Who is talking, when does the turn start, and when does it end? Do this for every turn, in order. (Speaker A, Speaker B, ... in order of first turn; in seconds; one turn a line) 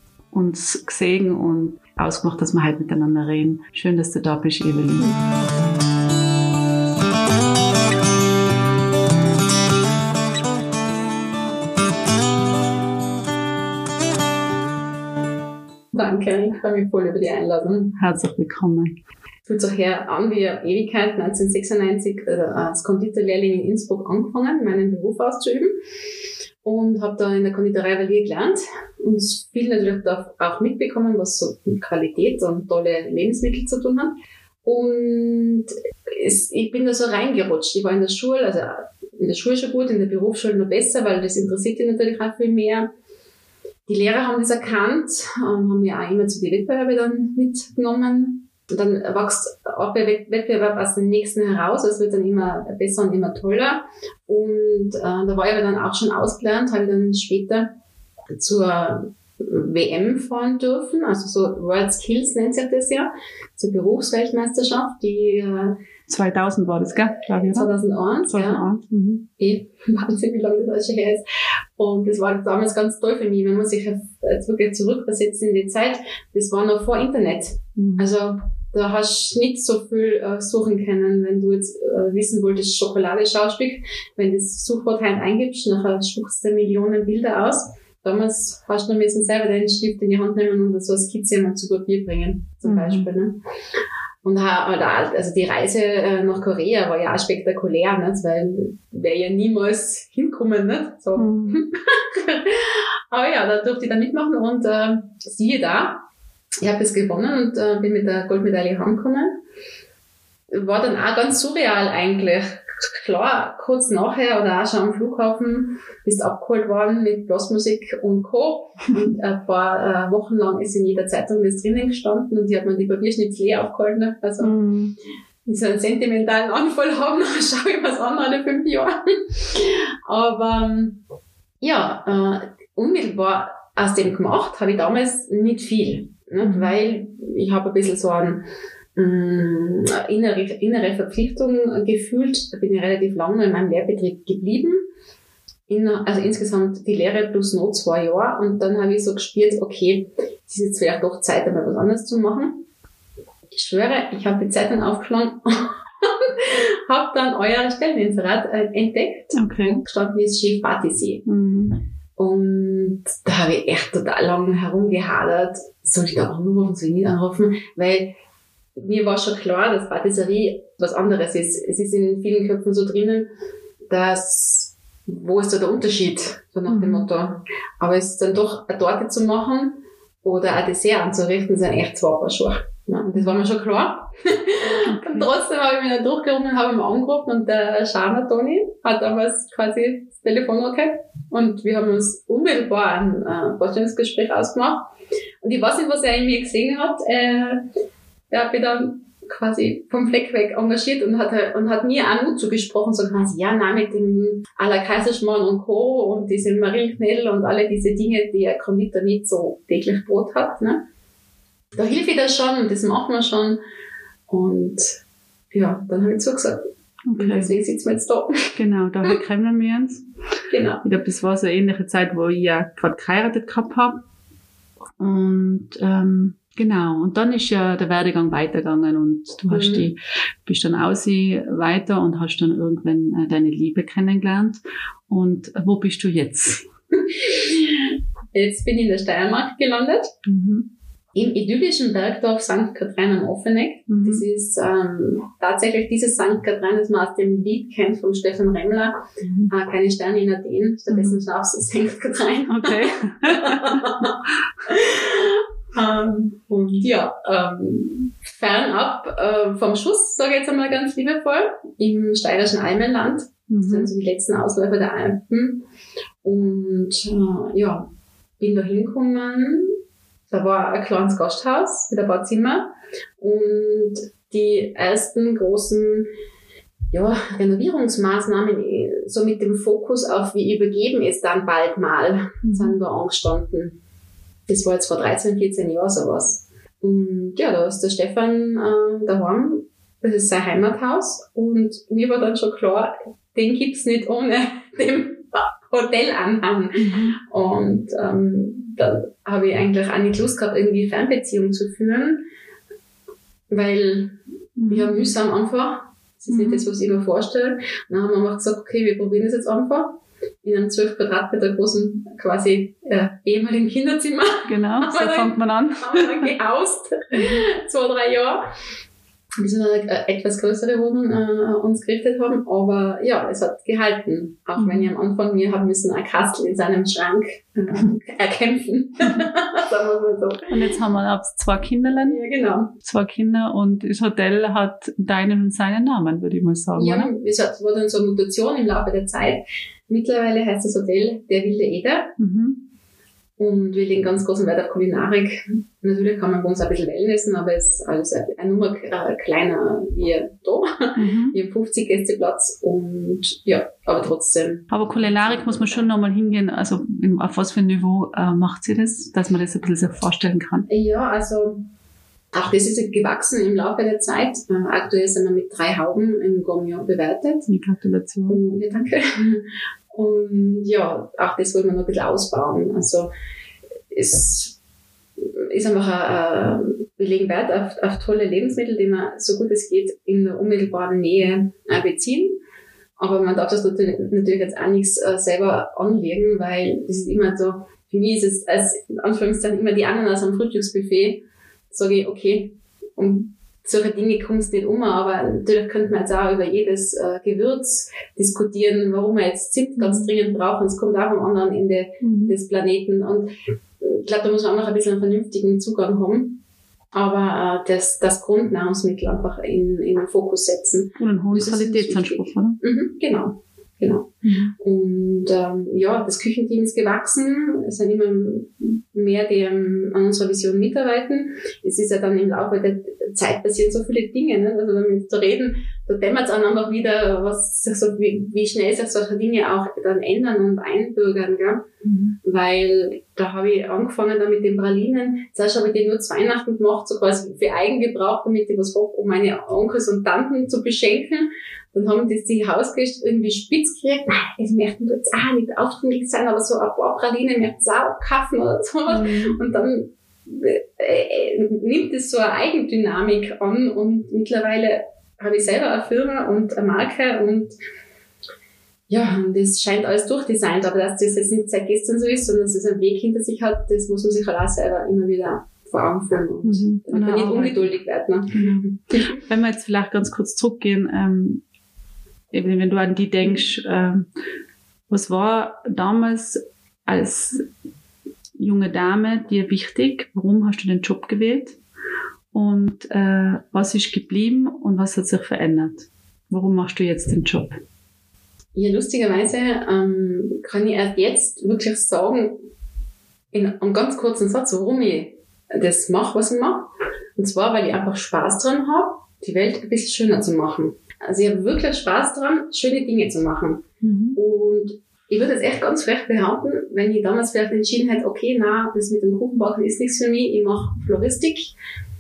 Speaker A: 0.3-5.2
Speaker B: 15.9-17.9
Speaker A: 17.9-18.9
Speaker B: 19.4-25.7
Speaker B: 26.6-42.9
Speaker B: 43.9-57.7
Speaker B: 58.3-65.7
Speaker A: 66.1-67.7
Speaker B: 67.2-68.6
Speaker A: 68.2-69.2
Speaker B: 69.4-71.2
Speaker B: 71.8-93.4
Speaker A: 77.8-78.1
Speaker A: 92.6-93.1
Speaker B: 94.2-106.0
Speaker A: 101.2-101.6
Speaker B: 106.6-109.3
Speaker B: 110.5-124.6
Speaker A: 124.4-124.9
Speaker B: 125.5-131.0
Speaker B: 131.6-138.4
Speaker A: 136.4-136.7
Speaker B: 138.9-144.8
Speaker B: 145.7-152.6
Speaker B: 153.5-161.2
Speaker A: 159.3-159.8
Speaker A: 161.2-161.8
Speaker B: 162.2-168.1
Speaker B: 168.8-173.3
Speaker B: 173.9-194.9
Speaker A: 176.7-177.1
Speaker A: 184.7-185.3
Speaker B: 195.4-197.6
Speaker B: 198.3-210.8
Speaker B: 211.8-213.6
Speaker B: 214.3-214.9
Speaker B: 215.5-216.6
Speaker A: 217.1-217.5
Speaker B: 217.2-218.5
Speaker A: 218.5-220.0
Speaker B: 220.5-220.8
Speaker A: 220.8-224.0
Speaker A: 225.0-236.7
Speaker B: 229.5-229.8
Speaker B: 237.2-240.1
Speaker A: 240.2-240.7
Speaker B: 241.1-265.6
Speaker A: 243.9-244.2
Speaker A: 249.2-249.5
Speaker A: 250.9-251.2
Speaker A: 252.5-254.1
Speaker A: 263.5-263.9
Speaker B: 266.2-267.9
Speaker B: 268.4-269.7
Speaker B: 270.3-276.1
Speaker B: 276.9-283.8
Speaker A: 282.4-282.8
Speaker B: 284.5-302.2
Speaker A: 296.8-297.2
Speaker B: 303.5-304.2
Speaker A: 304.6-305.1
Speaker B: 304.7-318.4
Speaker A: 306.3-306.6
Speaker A: 314.5-316.3
Speaker B: 319.4-330.5
Speaker A: 324.6-324.9
Speaker A: 330.5-332.2
Speaker B: 332.1-332.7
Speaker A: 332.8-337.1
Speaker B: 336.8-342.1
Speaker A: 342.2-342.6
Speaker B: 343.4-355.9
Speaker A: 350.9-351.3
Speaker A: 354.7-360.7
Speaker B: 360.7-361.6
Speaker B: 362.3-367.5
Speaker A: 367.5-368.4
Speaker B: 368.3-373.1
Speaker B: 373.9-374.6
Speaker B: 375.2-382.4
Speaker B: 383.0-406.4
Speaker A: 399.8-400.1
Speaker A: 402.0-402.3
Speaker B: 406.9-431.7
Speaker A: 410.9-412.6
Speaker A: 414.2-414.5
Speaker A: 431.8-432.1
Speaker B: 432.2-457.5
Speaker A: 448.9-449.4
Speaker B: 458.9-469.1
Speaker A: 466.4-467.7
Speaker A: 468.3-471.4
Speaker A: 472.3-474.1
Speaker A: 474.9-477.5
Speaker A: 478.4-481.6
Speaker A: 482.3-487.6
Speaker B: 488.5-492.4
Speaker B: 493.3-511.5
Speaker A: 503.8-504.2